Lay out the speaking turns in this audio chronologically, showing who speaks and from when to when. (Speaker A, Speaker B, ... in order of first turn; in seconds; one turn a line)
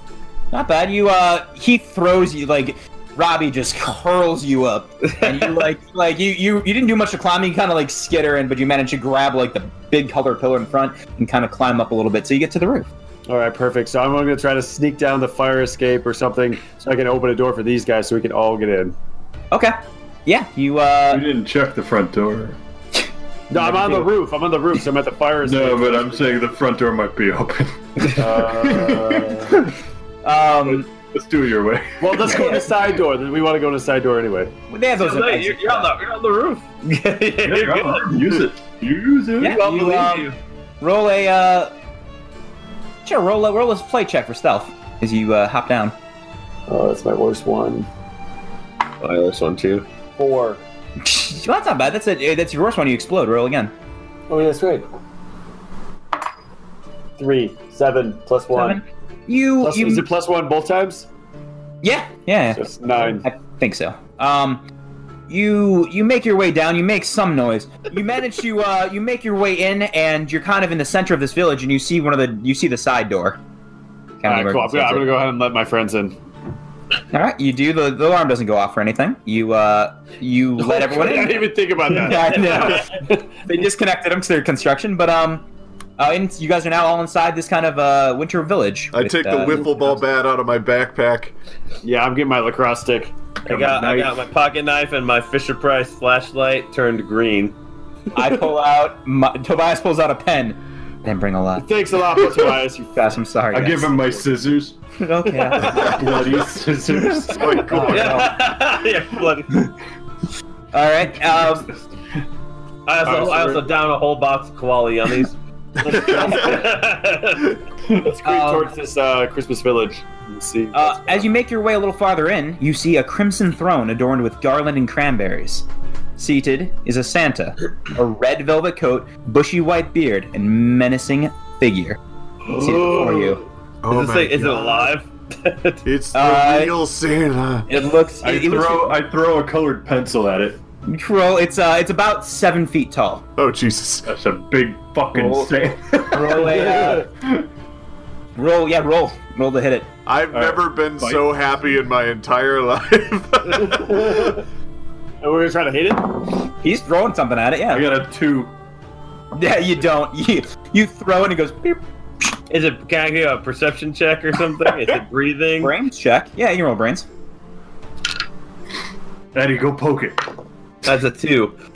Speaker A: 0.5-12.9
Speaker B: 5.1-5.6
Speaker C: 13.3-18.9
Speaker A: 19.5-21.3
Speaker D: 21.1-22.6
Speaker C: 23.5-26.4
Speaker A: 23.6-24.1
Speaker D: 25.4-29.6
Speaker C: 28.1-29.6
Speaker A: 30.2-30.9
Speaker D: 30.6-32.4
Speaker C: 32.0-34.5
Speaker A: 32.3-32.6
Speaker A: 34.7-35.9
Speaker B: 35.0-38.4
Speaker D: 37.4-39.6
Speaker A: 39.4-41.7
Speaker B: 39.4-40.4
Speaker A: 43.0-45.9
Speaker C: 46.7-47.9
Speaker B: 49.0-49.9
Speaker C: 50.1-50.6
Speaker A: 51.0-53.7
Speaker C: 54.3-54.9
Speaker C: 57.2-58.8
Speaker A: 58.5-60.1
Speaker C: 59.6-61.1
Speaker A: 61.8-64.6
Speaker C: 62.5-63.3
Speaker A: 65.3-73.4
Speaker A: 74.2-75.1
Speaker C: 74.2-76.2
Speaker A: 77.1-85.4
Speaker C: 80.6-83.2
Speaker B: 82.4-82.9
Speaker A: 86.0-89.6
Speaker E: 88.9-91.3
Speaker C: 91.8-93.1
Speaker B: 93.4-97.6
Speaker D: 93.5-94.2
Speaker A: 98.1-102.4
Speaker C: 101.6-103.1
Speaker A: 102.9-104.0
Speaker D: 103.5-104.8
Speaker A: 105.0-106.4
Speaker D: 105.6-108.2
Speaker A: 107.0-107.4
Speaker E: 107.3-108.3
Speaker B: 107.9-109.7
Speaker C: 107.9-108.3
Speaker A: 110.7-111.7
Speaker D: 111.3-111.6
Speaker B: 112.9-115.4
Speaker C: 113.0-113.7
Speaker C: 115.8-116.8
Speaker B: 115.9-117.6
Speaker C: 117.9-121.3
Speaker A: 118.2-118.7
Speaker A: 120.7-125.7
Speaker A: 126.2-132.0
Speaker A: 132.5-133.4
Speaker B: 132.5-135.9
Speaker E: 133.8-134.9
Speaker E: 135.8-137.7
Speaker A: 136.1-136.8
Speaker A: 137.7-139.0
Speaker D: 138.2-140.6
Speaker A: 140.9-143.2
Speaker E: 143.4-144.1
Speaker D: 144.1-147.4
Speaker A: 145.1-147.1
Speaker C: 146.6-147.1
Speaker A: 148.4-149.9
Speaker E: 150.1-154.3
Speaker D: 150.3-151.3
Speaker C: 153.7-154.4
Speaker C: 155.2-156.3
Speaker A: 156.6-157.9
Speaker D: 157.7-158.5
Speaker A: 159.3-161.8
Speaker B: 162.5-165.7
Speaker A: 165.6-167.1
Speaker D: 169.3-170.2
Speaker B: 170.8-171.6